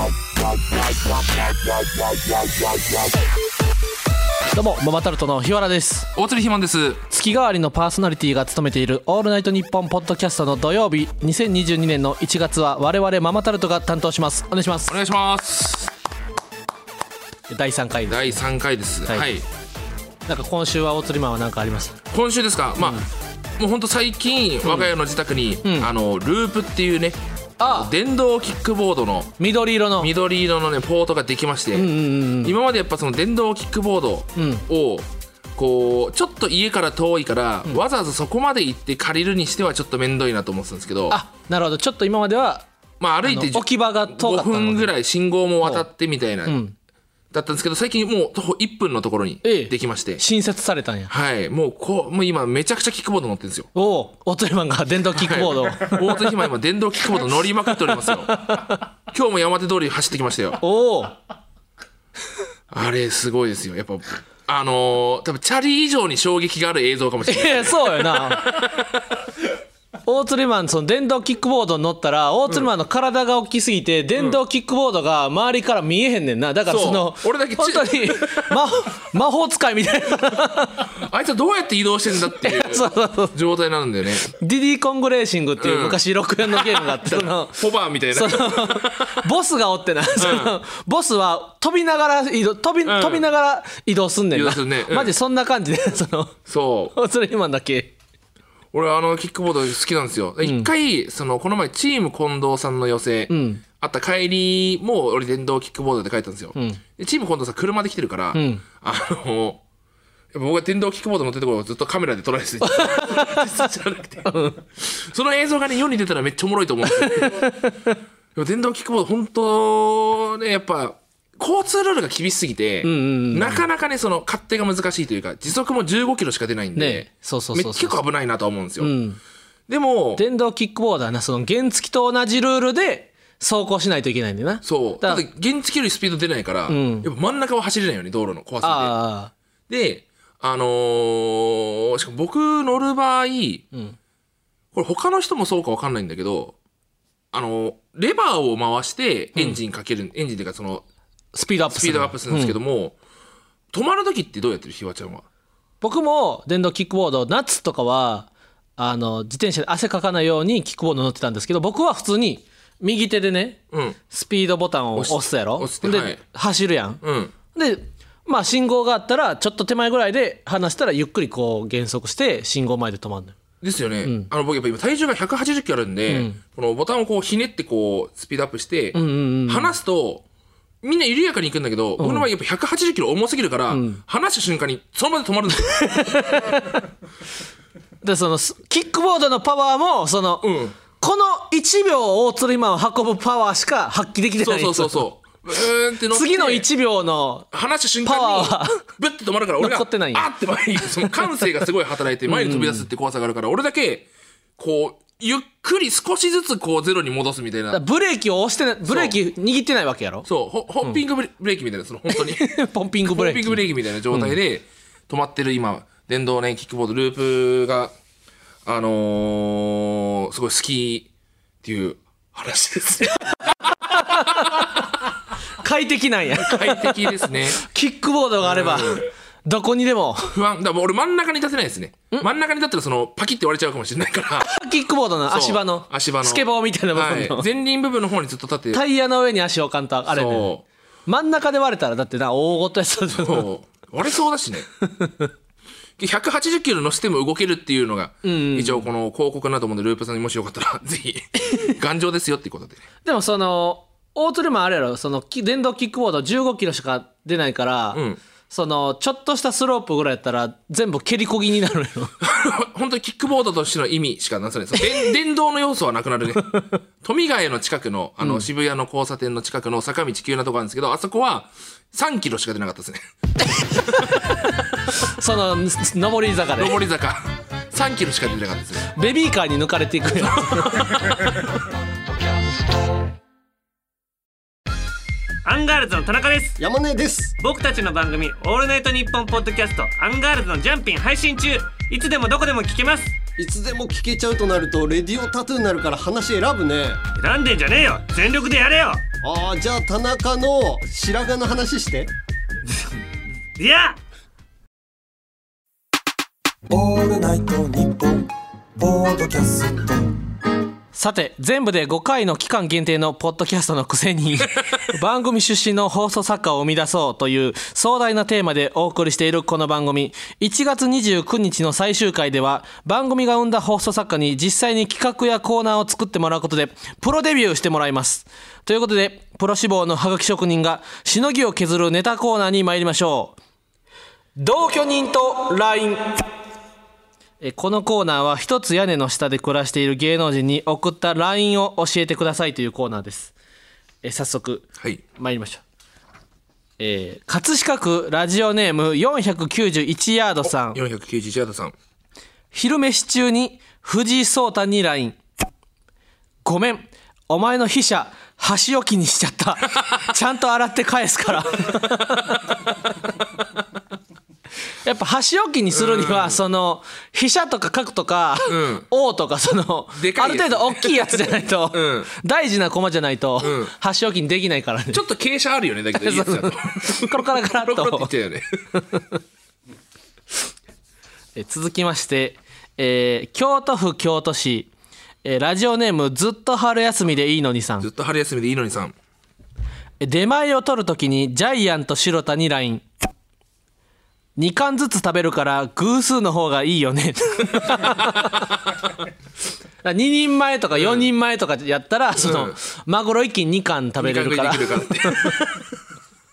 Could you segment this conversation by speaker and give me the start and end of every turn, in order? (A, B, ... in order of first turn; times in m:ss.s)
0:04.5-0:06.1 A
0:06.1-0:07.0 B
0:07.1-0:15.0 A
0:14.9-0:15.9 B
0:17.5-0:18.4 A
0:18.1-0:19.5 B
0:20.3-0:22.0 A
0:22.1-0:23.0 B
0:22.8-0:23.0 A
0:23.6-0:29.3 B
0:25.6-0:25.9 A
0:27.6-0:27.9 A
0:29.4-0:30.1 A
0:30.0-0:41.2 B
0:31.7-0:32.6 A
0:34.4-0:34.6 A
0:41.1-0:42.7 A
0:43.0-0:46.6 B
0:43.2-0:44.9 A
0:46.4-0:46.8 A
0:47.3-0:50.2 B
0:49.4-0:51.1 A
0:51.1-0:53.7 B
0:53.8-0:56.2 A
0:55.2-0:58.4 B
0:57.9-0:58.8 A
0:59.1-1:00.6 B
1:00.6-1:01.2 A
1:02.7-1:08.8 B
1:07.3-1:08.6 A
1:10.0-1:20.9 A
1:16.7-1:18.6 B
1:20.9-1:24.3 B
1:22.4-1:23.4 A
1:24.3-1:27.6 A
1:25.6-1:29.2 B
1:28.1-1:36.4 A
1:30.2-1:30.6 B
1:32.8-1:33.2 B
1:34.3-1:35.1 B
1:36.5-1:37.0 B
1:36.9-1:37.9 A
1:38.7-1:49.6 B
1:40.4-1:40.7 A
1:43.3-1:43.6 A
1:46.6-1:46.8 A
1:48.3-1:48.6 A
1:50.3-1:57.5 B
1:52.6-1:53.5 A
1:54.3-1:54.6 A
1:57.0-1:57.9 A
1:58.4-2:08.9 B
2:02.8-2:03.7 A
2:06.8-2:08.0 A
2:08.8-2:09.2 A
2:09.7-2:10.2 B
2:10.2-2:15.2 A
2:14.6-2:19.0 B
2:16.7-2:17.1 A
2:18.6-2:19.3 A
2:19.7-2:23.6 B
2:24.7-2:26.6 B
2:27.3-2:30.8 B
2:31.3-2:32.6 A
2:31.7-2:33.0 B
2:33.7-2:35.2 B
2:35.8-2:47.0 A
2:43.7-2:44.0 B
2:45.0-2:46.2 B
2:47.0-2:47.3 B
2:47.5-2:53.4 A
2:53.6-3:00.2 B
2:54.0-2:54.3 A
2:56.1-2:56.4 A
2:58.9-2:59.7 A
3:00.8-3:06.2 B
3:02.0-3:02.3 A
3:03.7-3:04.0 A
3:05.7-3:06.8 A
3:08.0-3:15.0 A
3:10.4-3:10.8 B
3:14.4-3:16.7 B
3:16.1-3:17.5 A
3:17.5-3:27.8 B
3:18.0-3:18.8 A
3:19.6-3:20.3 A
3:22.3-3:22.9 A
3:27.7-3:30.3 A
3:28.9-3:29.2 B
3:30.2-3:32.5 B
3:32.1-3:34.4 A
3:33.1-3:37.9 B
3:38.6-3:41.1 B
3:41.6-3:44.6 B
3:43.4-3:44.8 A
3:45.6-3:50.4 A
3:46.4-3:47.6 B
3:48.4-3:49.1 B
3:50.3-3:54.5 B
3:54.5-3:57.5 A
3:55.3-3:58.8 B
3:58.7-4:00.5 A
4:00.1-4:00.6 B
4:01.1-4:03.5 A
4:03.2-4:04.7 B
4:04.9-4:05.3 A
4:06.0-4:12.8 B
4:08.2-4:08.9 A
4:13.0-4:22.1 A
4:17.9-4:18.2 B
4:22.2-4:33.0 B
4:33.8-4:36.8 A
4:36.6-4:38.9 B
4:38.9-4:41.0 A
4:40.4-4:41.4 B
4:45.4-4:46.6 C
4:46.6-4:47.4 D
4:47.4-4:53.2 C
4:53.4-4:57.0 D
4:57.2-4:59.0 C
4:59.2-5:02.1 D
5:03.6-5:04.0 C
5:06.7-5:10.1 E
5:10.9-5:33.4 A
5:34.4-5:36.2 A
5:37.4-5:43.3 A
5:44.0-5:45.6 A
5:46.8-5:50.8 A
5:50.4-5:51.8 B
5:52.5-5:55.2 A
5:56.4-6:02.6 A
6:04.8-6:15.0 A
6:05.7-6:06.4 B
6:08.5-6:08.9 B
6:10.0-6:11.2 B
6:11.7-6:12.1 B
6:13.4-6:13.7 B
6:14.9-6:18.4 B
6:16.0-6:18.1 A
6:21.4-6:24.7 A
6:25.2-6:27.9 A
6:27.8-6:29.0 B
6:30.0-6:32.8 A
6:34.4-6:38.5 A
6:39.8-6:45.6 A
6:40.8-6:41.1 B
6:42.1-6:42.6 B
6:44.0-6:45.5 B